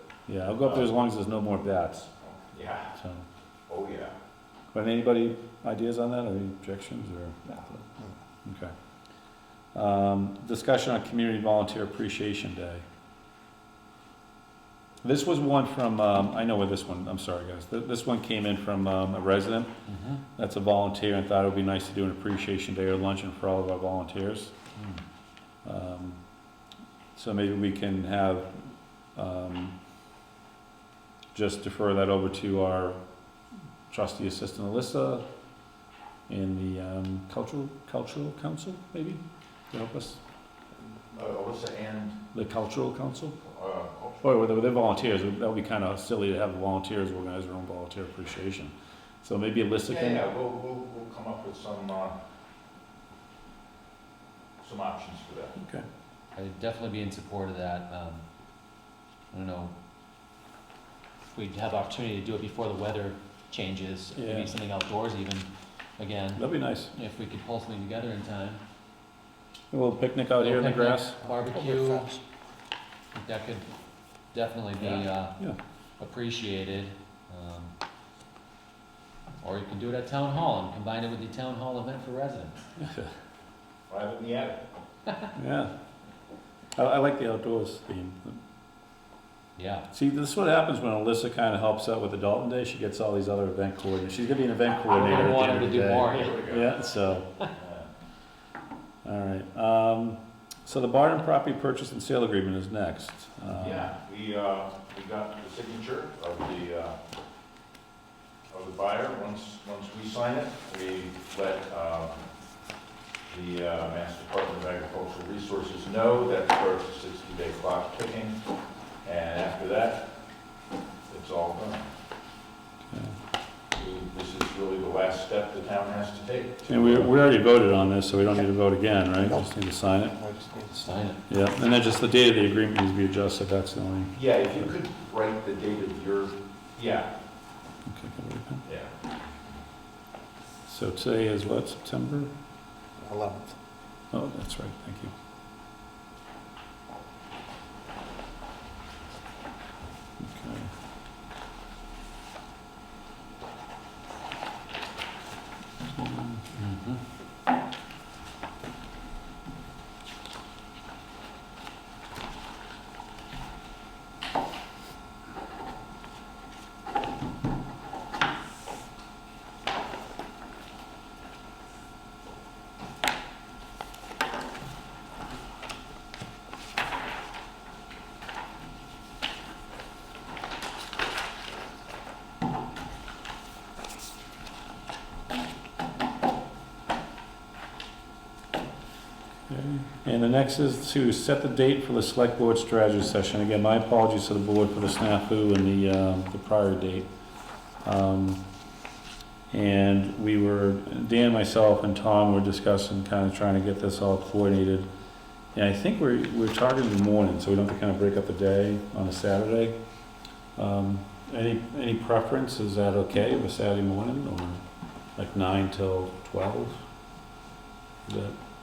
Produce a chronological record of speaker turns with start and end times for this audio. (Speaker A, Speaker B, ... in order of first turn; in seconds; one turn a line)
Speaker A: 0.3-2.1
Speaker B: 0.6-0.9
Speaker B: 2.2-3.0
Speaker A: 3.0-3.2
Speaker B: 3.7-4.1
Speaker A: 4.7-7.8
Speaker A: 8.4-8.7
Speaker A: 9.8-12.8
Speaker A: 15.0-19.7
Speaker C: 19.9-20.2
Speaker A: 20.4-24.5
Speaker A: 25.6-26.2
Speaker A: 27.2-28.5
Speaker A: 29.2-29.7
Speaker A: 31.3-33.0
Speaker A: 33.9-35.2
Speaker A: 36.3-40.2
Speaker B: 41.1-42.2
Speaker A: 42.3-43.4
Speaker B: 43.4-44.2
Speaker A: 44.2-48.7
Speaker A: 49.2-50.2
Speaker B: 49.9-52.1
Speaker B: 54.6-55.5
Speaker A: 55.6-55.9
Speaker C: 56.4-58.2
Speaker C: 59.3-59.7
Speaker C: 61.4-68.6
Speaker A: 64.2-64.5
Speaker A: 66.4-66.9
Speaker A: 69.7-71.2
Speaker C: 70.4-72.1
Speaker D: 71.2-72.2
Speaker C: 73.1-73.7
Speaker C: 74.3-75.4
Speaker A: 74.8-75.6
Speaker C: 76.0-77.7
Speaker C: 79.4-82.6
Speaker A: 82.8-83.1
Speaker B: 83.9-84.6
Speaker A: 85.4-85.7
Speaker A: 86.8-88.4
Speaker C: 89.6-89.9
Speaker A: 89.9-97.3
Speaker C: 94.8-96.5
Speaker B: 96.0-96.7
Speaker B: 97.5-97.9
Speaker A: 99.0-103.9
Speaker B: 103.5-107.0
Speaker B: 108.5-112.2
Speaker B: 113.3-118.4
Speaker B: 119.0-120.1
Speaker B: 121.1-121.8
Speaker A: 122.9-123.2
Speaker B: 123.8-127.1
Speaker A: 126.7-130.2
Speaker D: 129.2-129.5
Speaker D: 130.1-131.1
Speaker C: 130.8-131.2
Speaker A: 131.3-134.2
Speaker B: 134.2-137.1
Speaker A: 137.9-138.6
Speaker B: 138.7-138.9
Speaker A: 140.7-142.3
Speaker D: 143.0-143.5
Speaker A: 144.1-145.1
Speaker A: 150.2-150.7
Speaker A: 155.9-156.4
Speaker C: 156.5-157.0
Speaker A: 189.5-197.1
Speaker A: 197.8-198.4
Speaker A: 199.5-204.9
Speaker A: 205.6-209.8
Speaker A: 210.6-214.6
Speaker A: 215.2-216.8
Speaker A: 218.1-218.4